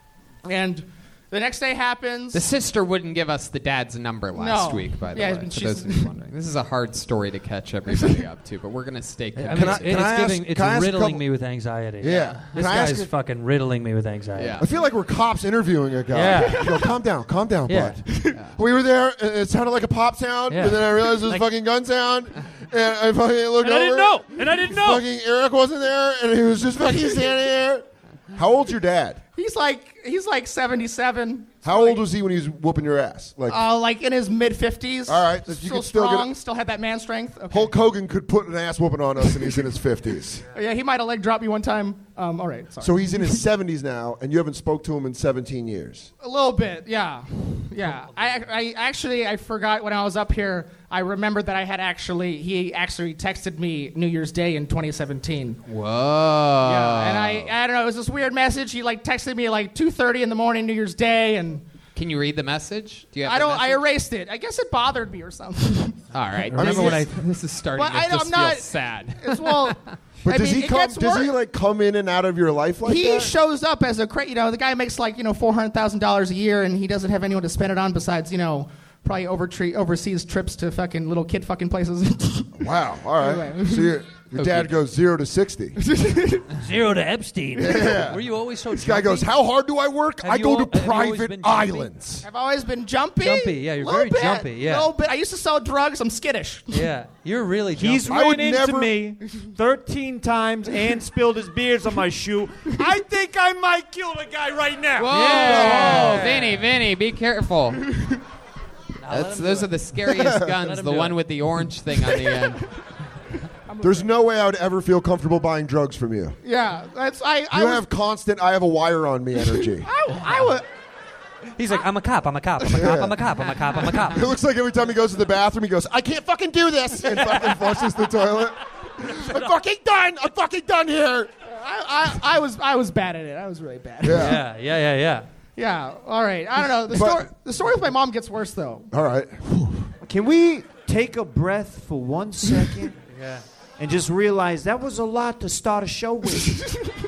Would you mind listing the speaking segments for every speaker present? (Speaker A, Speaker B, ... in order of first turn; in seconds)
Speaker A: 0.5-2.5, 4.3-6.1, 7.9-8.2, 16.6-16.9, 18.1-18.4, 29.4-32.0, 33.5-37.7, 40.5-43.4, 46.2-55.6, 56.6-61.6, 63.2-66.0, 66.6-67.1, 67.8-71.3, 72.8-82.5, 83.2-83.9, 85.8-86.5, 92.2-96.9, 113.7-114.1, 116.4-117.8, 119.8-120.7, 131.5-134.4, 135.6-138.9
Speaker B: 2.3-9.9, 14.3-14.7, 55.7-57.5, 62.0-63.8, 66.1-69.9, 105.0-107.9, 109.1-112.6
Speaker C: 9.4-14.6, 16.1-16.7, 17.7-18.0, 20.5-21.4, 23.6-25.0, 66.5-67.1, 84.3-84.7, 86.5-89.3, 90.2-91.9, 93.2-94.9, 96.7-98.3, 105.1-106.6, 109.0-111.2, 121.6-124.2, 134.1-135.3, 143.1-143.4
Speaker D: 9.5-11.2, 12.0-13.1, 14.6-29.2, 31.6-33.6, 35.1-36.3, 37.5-40.4, 42.8-46.1, 70.2-73.3, 82.6-85.8, 87.5-92.3, 98.1-99.1, 105.3-106.2, 110.2-110.5, 113.8-116.4, 117.5-119.9, 122.7-123.2, 124.1-131.3, 134.0-134.4, 136.9-137.3, 138.9-139.9
Speaker E: 97.7-105.3, 140.1-142.9, 143.8-146.6